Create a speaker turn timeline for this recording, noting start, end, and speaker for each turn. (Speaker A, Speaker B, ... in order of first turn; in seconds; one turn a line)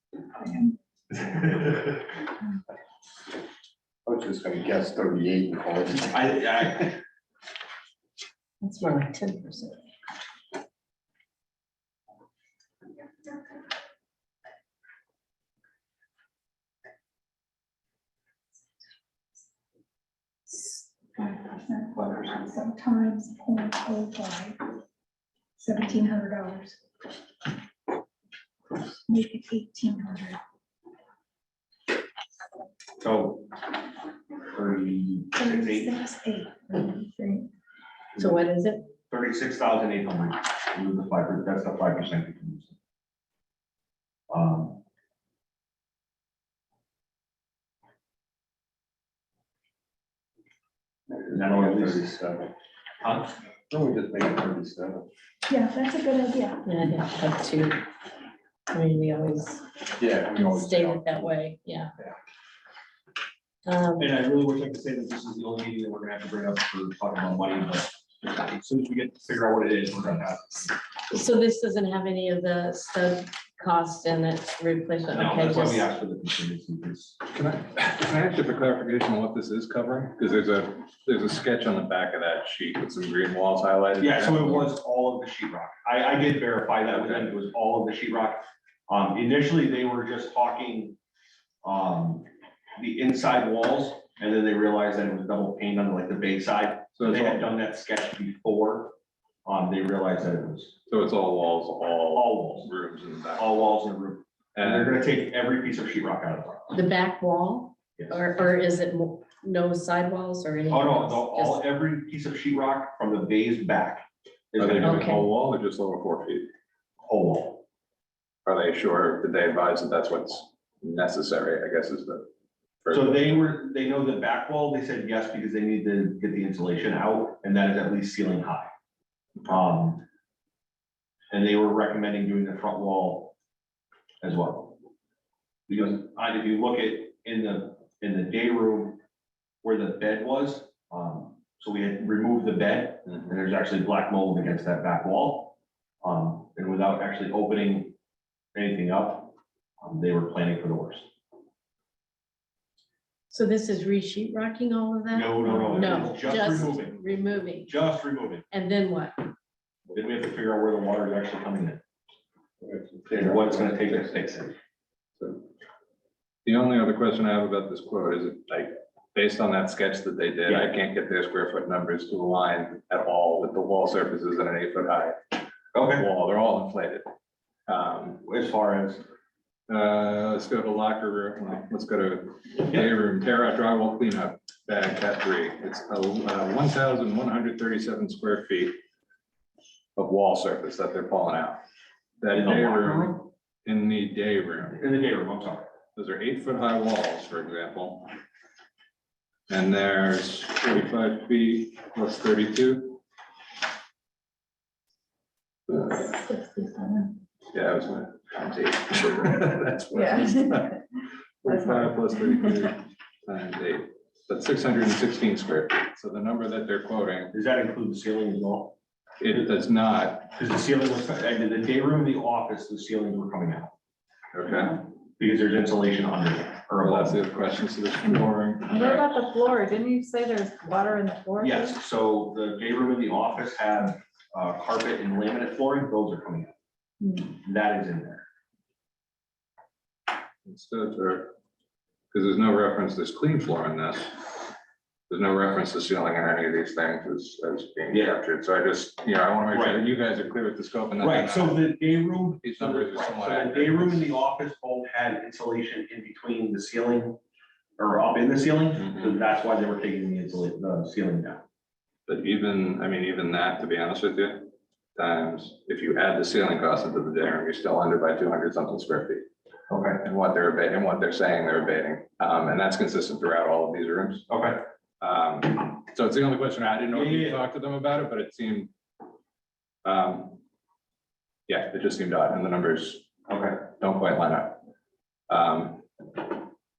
Speaker A: 0.4-0.7
Speaker B: 1.1-2.0
Speaker C: 4.1-6.2
Speaker B: 6.1-7.0
Speaker D: 8.6-9.8
Speaker A: 20.5-24.6
Speaker A: 25.6-26.8
Speaker A: 29.1-30.4
Speaker B: 33.0-33.5
Speaker B: 34.5-36.0
Speaker A: 35.4-37.5
Speaker D: 38.2-38.9
Speaker B: 39.1-42.8
Speaker B: 44.3-44.8
Speaker C: 51.3-52.5
Speaker B: 51.3-52.1
Speaker B: 53.0-53.3
Speaker C: 53.7-55.1
Speaker A: 55.5-56.6
Speaker D: 56.6-57.8
Speaker D: 58.7-59.6
Speaker C: 60.0-61.2
Speaker D: 60.3-61.9
Speaker D: 63.6-64.1
Speaker B: 64.0-70.8
Speaker D: 71.1-75.9
Speaker B: 75.1-77.2
Speaker E: 77.3-84.7
Speaker B: 84.0-91.0
Speaker E: 86.9-87.4
Speaker B: 91.6-100.8
Speaker E: 97.0-97.4
Speaker E: 100.9-103.6
Speaker B: 102.1-102.7
Speaker B: 103.4-106.7
Speaker E: 104.6-105.0
Speaker D: 106.7-111.6
Speaker B: 108.0-108.2
Speaker B: 110.7-115.1
Speaker E: 114.6-116.5
Speaker D: 114.8-115.3
Speaker B: 117.0-117.6
Speaker E: 118.5-122.3
Speaker E: 122.8-123.4
Speaker B: 122.9-128.7
Speaker B: 129.5-130.0
Speaker B: 131.3-133.3
Speaker B: 134.2-134.8
Speaker B: 135.7-139.0
Speaker B: 139.6-147.9
Speaker B: 148.6-151.1
Speaker D: 153.3-157.8
Speaker B: 155.1-157.0
Speaker B: 157.6-158.4
Speaker D: 158.5-159.2
Speaker B: 159.9-161.8
Speaker C: 162.6-164.2
Speaker B: 163.1-164.6
Speaker E: 166.4-175.2
Speaker B: 175.7-176.1
Speaker E: 175.9-177.1
Speaker E: 177.7-178.2
Speaker B: 178.2-179.0
Speaker E: 179.7-188.8
Speaker E: 190.0-191.6
Speaker E: 192.2-194.8
Speaker B: 192.3-193.2
Speaker B: 194.8-195.7
Speaker E: 195.9-198.1
Speaker E: 199.5-203.0
Speaker A: 206.1-207.1
Speaker E: 207.5-210.8
Speaker E: 211.4-217.3
Speaker B: 217.3-218.8
Speaker E: 219.2-220.3
Speaker B: 220.3-223.7
Speaker E: 224.3-224.8
Speaker B: 225.2-227.2
Speaker E: 226.8-229.2
Speaker F: 228.7-231.7
Speaker B: 231.4-236.5
Speaker B: 237.4-238.2
Speaker E: 240.4-241.3
Speaker E: 242.1-244.3
Speaker E: 245.1-251.6
Speaker B: 247.9-248.2
Speaker B: 249.5-249.8
Speaker B: 251.0-257.2
Speaker E: 252.4-254.2
Speaker B: 257.8-261.4
Speaker E: 258.8-259.2
Speaker E: 262.1-269.3
Speaker B: 269.7-270.0
Speaker E: 270.0-274.3
Speaker B: 274.3-274.6
Speaker E: 275.0-278.7
Speaker B: 276.9-277.4
Speaker E: 279.8-280.4
Speaker E: 281.5-283.1
Speaker B: 283.3-283.6
Speaker E: 283.7-284.6
Speaker E: 285.3-286.4